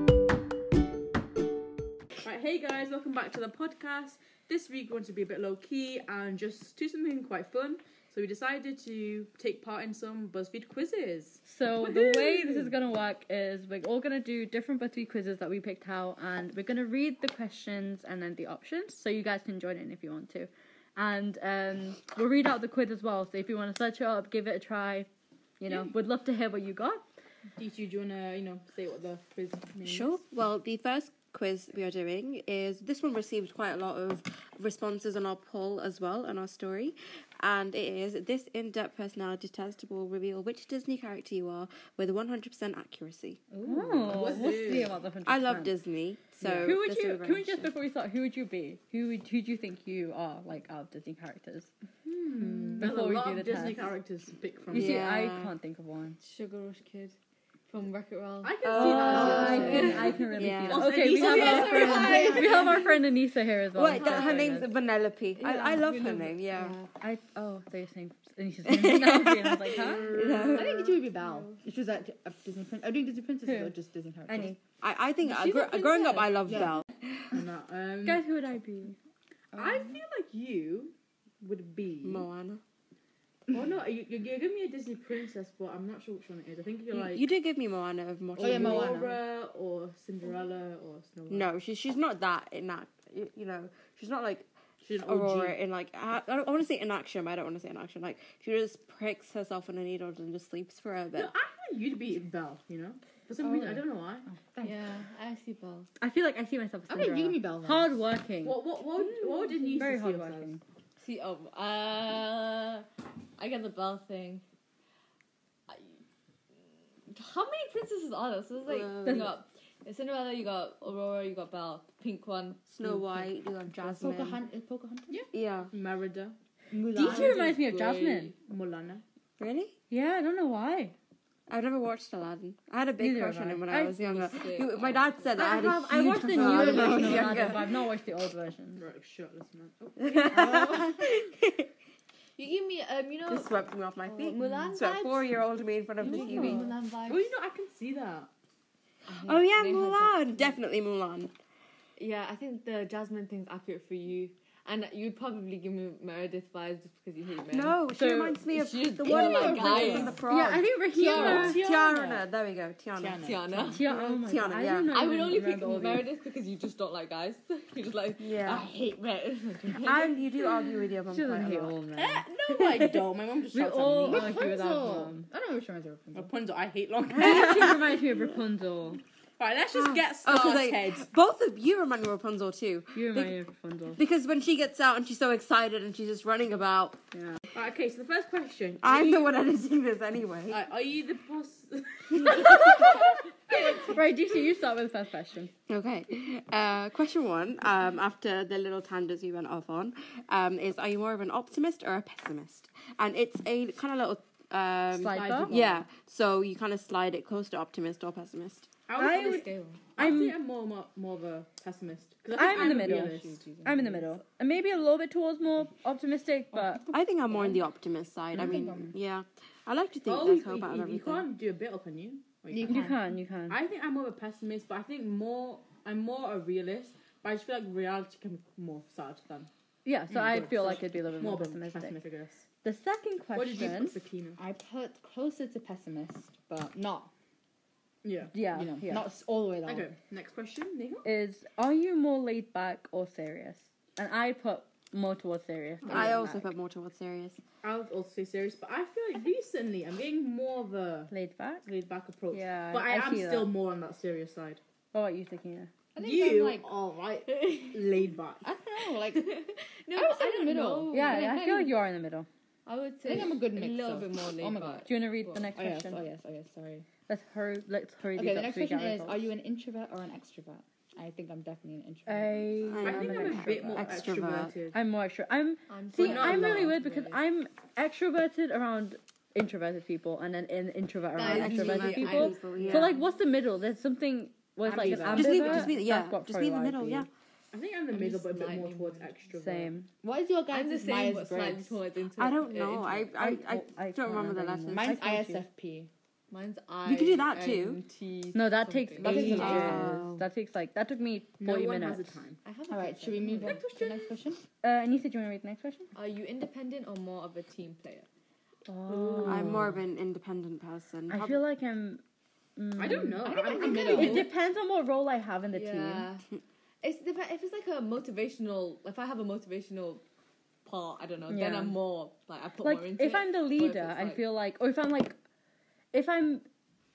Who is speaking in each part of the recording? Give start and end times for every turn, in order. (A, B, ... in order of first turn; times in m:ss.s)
0:02.2-0:12.7 A
0:11.4-0:25.1 B
0:25.6-0:27.0 B
0:27.6-0:30.2 A
0:29.8-0:43.4 C
0:43.5-0:44.4 D
0:43.6-0:45.7 B
0:44.0-0:45.0 A
0:45.2-0:47.7 C
0:46.4-0:46.7 A
0:46.6-0:51.7 B
0:52.1-0:52.9 D
0:52.3-0:55.0 A
0:52.8-0:53.9 B
0:54.7-0:56.2 B
0:54.7-0:55.5 C
0:56.2-0:57.2 E
0:57.7-1:00.6 E
0:58.4-1:02.4 A
0:58.6-1:02.4 C
0:58.7-1:04.7 B
1:01.1-1:02.9 E
1:01.9-1:02.9 D
1:03.7-1:06.8 C
1:03.9-1:04.6 E
1:05.4-1:06.9 E
1:07.0-1:10.2 B
1:08.6-1:11.0 C
1:09.8-1:10.8 A
1:10.5-1:14.5 D
1:11.1-1:11.6 E
1:13.4-1:13.7 B
1:14.3-1:14.6 B
1:14.8-1:17.2 C
1:15.2-1:16.4 E
1:16.4-1:16.8 D
1:17.3-1:18.3 A
1:18.0-1:19.0 B
1:19.5-1:22.3 A
1:19.5-1:19.9 D
1:22.0-1:22.6 C
1:23.5-1:27.3 A
1:26.9-1:29.0 C
1:28.3-1:31.5 A
1:28.4-1:29.2 D
1:31.3-1:41.3 C
1:34.8-1:35.6 A
1:41.1-1:44.3 A
1:43.4-1:44.8 D
1:44.6-1:45.9 E
1:46.0-1:48.6 B
1:46.9-1:47.9 D
1:48.4-1:50.6 A
1:49.7-1:50.6 B
1:51.0-1:54.4 E
1:55.7-1:56.0 E
1:57.1-2:03.3 E
1:58.6-1:59.4 C
1:59.0-1:59.4 B
2:02.7-2:04.4 C
2:03.8-2:05.2 D
2:05.1-2:06.4 A
2:05.3-2:05.7 C
2:06.7-2:07.6 D
2:06.9-2:08.3 B
2:07.0-2:08.3 E
2:08.4-2:09.0 A
2:09.4-2:09.7 C
2:09.9-2:10.9 B
2:11.5-2:17.8 C
2:13.0-2:14.0 B
2:13.9-2:15.6 E
2:15.4-2:18.8 B
2:16.3-2:17.6 D
2:18.8-2:20.6 A
2:20.0-2:21.7 C
2:20.3-2:21.1 D
2:22.4-2:25.3 E
2:23.3-2:26.7 C
2:26.0-2:27.3 E
2:26.0-2:26.7 B
2:27.1-2:28.3 A
2:29.1-2:30.6 E
2:29.2-2:31.3 C
2:32.0-2:37.8 E
2:37.5-2:43.2 C
2:37.9-2:38.4 B
2:38.5-2:40.2 E
2:39.0-2:40.2 D
2:40.2-2:41.6 B
2:40.9-2:41.6 D
2:41.1-2:42.3 A
2:43.0-2:43.8 A
2:43.2-2:43.9 E
2:43.7-2:46.1 B
2:44.1-2:44.9 C
2:44.8-2:50.8 E
2:48.2-2:48.6 C
2:49.8-2:51.8 C
2:51.1-2:52.3 B
2:52.0-2:54.5 A
2:52.5-2:53.0 C
2:53.5-2:55.3 B
2:54.1-2:56.3 D
2:56.1-2:57.9 A
2:57.1-2:59.0 B
2:57.2-2:57.7 C
2:59.4-3:01.1 A
2:59.7-3:03.3 C
3:02.9-3:04.0 B
3:04.0-3:07.0 C
3:07.1-3:07.4 B
3:07.5-3:09.3 A
3:08.8-3:10.6 C
3:10.5-3:13.9 A
3:12.2-3:13.0 C
3:12.2-3:15.5 B
3:15.7-3:28.7 C
3:24.9-3:25.5 B
3:25.0-3:25.9 A
3:28.9-3:33.4 A
3:29.0-3:30.4 B
3:29.0-3:29.9 E
3:32.3-3:36.8 B
3:32.5-3:34.2 D
3:36.9-3:41.3 C
3:38.3-3:38.9 D
3:40.0-3:42.9 A
3:42.5-3:43.1 D
3:42.6-3:43.6 B
3:43.5-3:49.5 A
3:49.8-3:52.0 B
3:50.1-3:52.4 A
3:52.6-3:54.0 B
3:53.3-3:54.4 A
3:54.4-3:57.1 D
3:58.0-3:58.3 A
3:58.3-3:59.1 B
3:58.5-3:59.9 D
3:59.6-4:01.0 A
4:01.0-4:06.5 B
4:05.9-4:07.4 C
4:07.6-4:11.1 A
4:11.1-4:11.7 B
4:11.6-4:14.6 A
4:12.3-4:13.5 B
4:14.9-4:15.7 B
4:15.9-4:16.7 D
4:16.0-4:18.4 A
4:18.4-4:19.4 D
4:19.0-4:21.2 E
4:19.9-4:21.7 D
4:20.9-4:22.3 B
4:22.6-4:25.4 E
4:23.0-4:24.9 D
4:24.8-4:26.0 B
4:25.5-4:26.9 D
4:27.1-4:29.2 B
4:28.1-4:32.6 D
4:32.1-4:33.9 B
4:32.7-4:34.5 C
4:32.8-4:34.8 A
4:34.7-4:47.1 B
4:35.7-4:37.2 E
4:36.0-4:36.8 A
4:41.2-4:43.0 E
4:41.2-4:42.9 C
4:42.6-4:42.9 A
4:44.6-4:45.7 A
4:45.0-4:47.1 C
4:47.5-4:49.7 A
4:47.9-4:49.2 E
4:49.3-4:49.9 B
4:50.0-4:51.8 D
4:50.5-4:53.1 E
4:52.2-4:54.9 C
4:53.1-4:55.4 B
4:54.7-4:55.9 D
4:56.3-4:59.4 E
4:56.8-4:57.8 C
4:58.3-5:02.1 B
4:59.0-4:59.9 D
4:59.0-5:00.3 C
4:59.2-4:59.7 A
5:01.4-5:02.4 A
5:02.4-5:03.6 E
5:02.7-5:04.4 D
5:03.4-5:04.1 A
5:04.6-5:05.9 B
5:05.9-5:08.1 E
5:08.7-5:09.7 B
5:09.2-5:11.4 C
5:11.1-5:12.0 B
5:12.6-5:16.1 B
5:12.8-5:14.3 A
5:13.3-5:14.2 E
5:13.3-5:14.3 D
5:15.5-5:16.2 E
5:16.8-5:20.0 E
5:20.6-5:24.2 E
5:21.3-5:21.8 B
5:22.6-5:25.2 B
5:25.9-5:26.4 B